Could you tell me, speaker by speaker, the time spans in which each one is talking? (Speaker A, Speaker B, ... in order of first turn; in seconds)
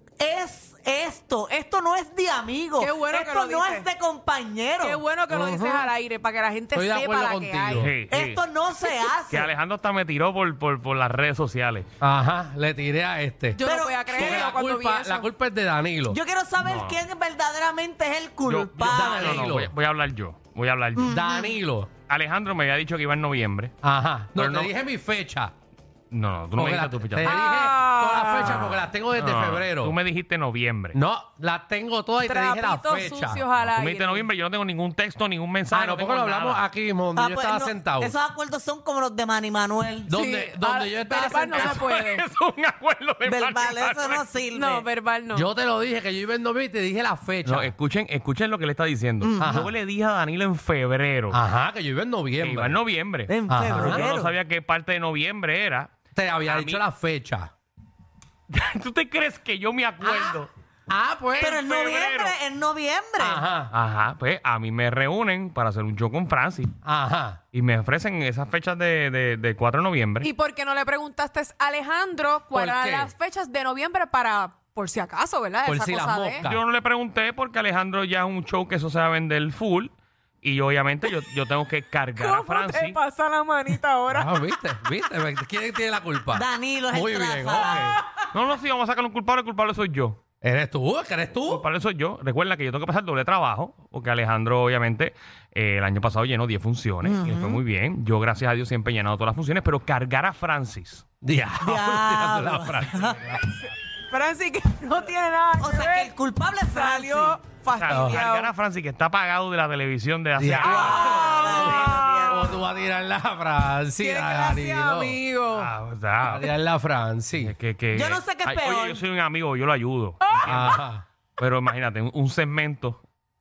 Speaker A: 0.2-5.0, 8.1-9.5, 13.6-14.5, 16.1-19.5, 21.0-21.6, 37.2-40.1, 43.3-44.9, 49.2-49.7, 53.3-54.4, 61.4-63.5, 86.3-88.0, 97.0-97.6, 101.6-103.2, 105.6-107.4, 110.6-112.6, 117.9-119.0
Speaker B: 2.8-3.9, 4.8-7.9, 13.6-15.3, 27.2-28.7, 32.2-34.3, 40.1-42.3, 44.5-45.5, 70.2-76.5, 82.2-84.5, 104.1-106.1, 106.7-108.5, 110.9-112.1, 114.0-115.7, 120.2-120.8
Speaker C: 5.3-5.9, 6.8-7.9, 12.0-16.2, 18.8-19.7, 21.0-21.9, 23.8-25.5, 26.6-30.0, 30.9-33.5, 35.7-38.1, 40.1-41.8, 45.3-47.7, 49.4-49.7, 51.3-52.8, 53.5-54.1, 56.1-57.5, 60.0-61.6, 63.2-63.7, 66.8-67.4, 72.5-73.1, 75.7-76.6, 84.1-88.0, 90.4-91.6, 101.2-103.4, 107.9-108.2, 110.4-115.2, 116.2-117.5, 120.4-121.0
Speaker D: 7.8-8.4, 9.3-11.9, 16.6-17.0, 18.5-21.1, 22.1-23.7, 24.4-24.7, 26.1-27.4, 28.4-31.0, 33.6-36.6, 41.2-44.2, 47.5-51.4, 52.4-56.8, 58.5-60.5, 61.3-62.3, 63.7-66.7, 67.5-70.3, 76.4-83.0, 88.3-90.2, 91.5-101.0, 107.8-112.5, 115.5-116.5, 117.4-120.8, 121.4-123.0